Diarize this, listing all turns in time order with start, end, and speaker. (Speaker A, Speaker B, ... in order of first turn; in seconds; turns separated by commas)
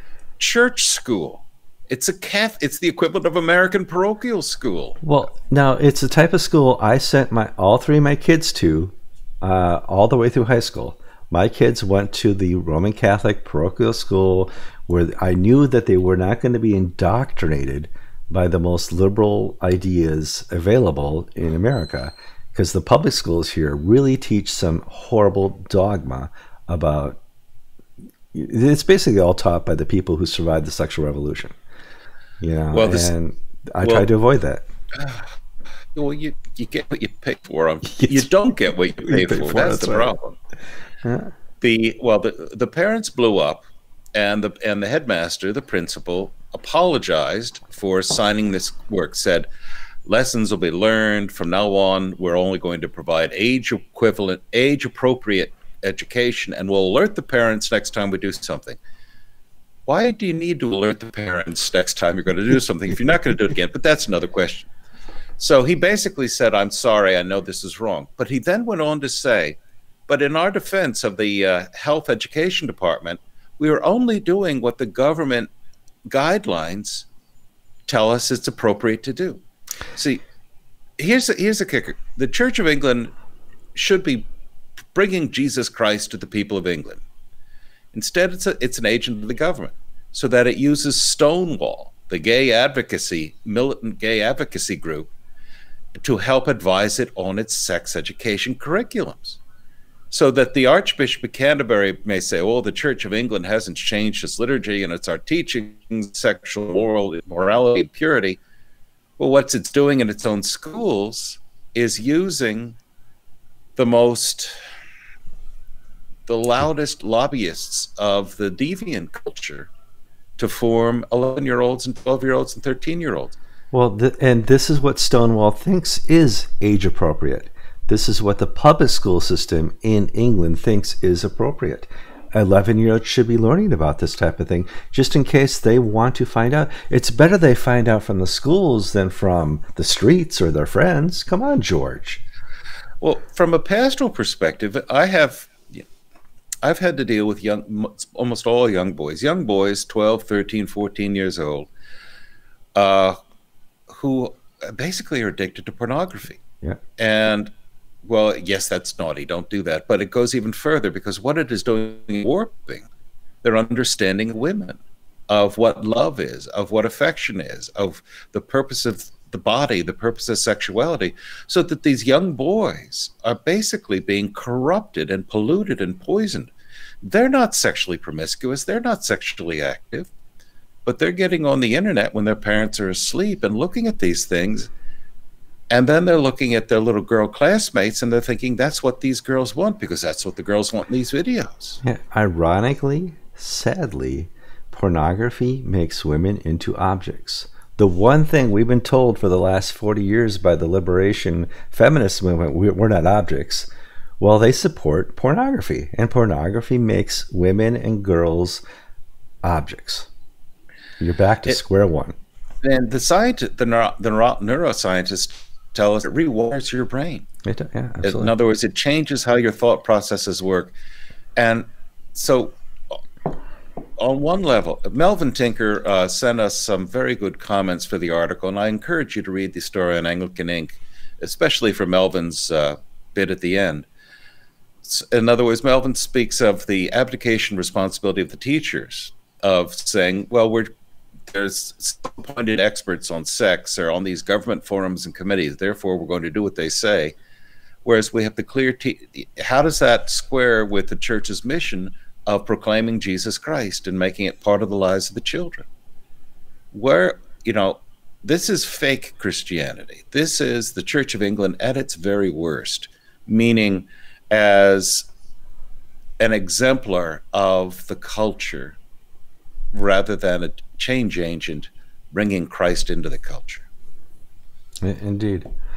Speaker A: 0.4-5.0, Speaker B: 5.0-27.2, Speaker B: 28.3-31.5, Speaker B: 32.4-34.6, Speaker A: 32.7-33.1, Speaker A: 33.8-34.1, Speaker A: 34.9-35.3, Speaker A: 35.9-40.4, Speaker B: 37.9-38.3, Speaker B: 39.0-40.1, Speaker B: 41.0-41.3, Speaker A: 41.6-49.5, Speaker A: 50.0-58.8, Speaker A: 59.9-64.7, Speaker A: 65.4-75.5, Speaker A: 76.1-77.1, Speaker A: 77.9-79.4, Speaker A: 79.9-80.2, Speaker A: 81.0-83.1, Speaker A: 83.7-84.3, Speaker A: 84.9-87.0, Speaker A: 87.9-95.1, Speaker A: 95.9-99.4, Speaker A: 100.1-108.4, Speaker A: 109.2-112.8, Speaker A: 113.8-114.5, Speaker A: 116.3-119.7, Speaker A: 120.4-123.4, Speaker B: 123.7-142.2, Speaker A: 143.0-145.8, Speaker A: 146.6-151.7, Speaker A: 152.7-153.2, Speaker A: 153.9-156.4, Speaker A: 157.0-157.5, Speaker A: 158.0-162.9, Speaker A: 163.4-176.5, Speaker A: 177.0-180.1, Speaker A: 180.8-184.7, Speaker A: 185.7-191.8, Speaker B: 191.8-203.7, Speaker B: 204.2-208.6, Speaker B: 209.4-210.1, Speaker B: 211.0-212.1, Speaker A: 212.6-217.2, Speaker B: 217.4-218.3, Speaker A: 218.0-220.7, Speaker A: 221.4-223.0, Speaker A: 224.0-233.9, Speaker A: 234.8-240.7, Speaker A: 241.3-247.2, Speaker A: 247.8-255.7, Speaker A: 256.7-265.1, Speaker A: 266.2-268.8, Speaker A: 269.7-273.6, Speaker B: 274.8-275.5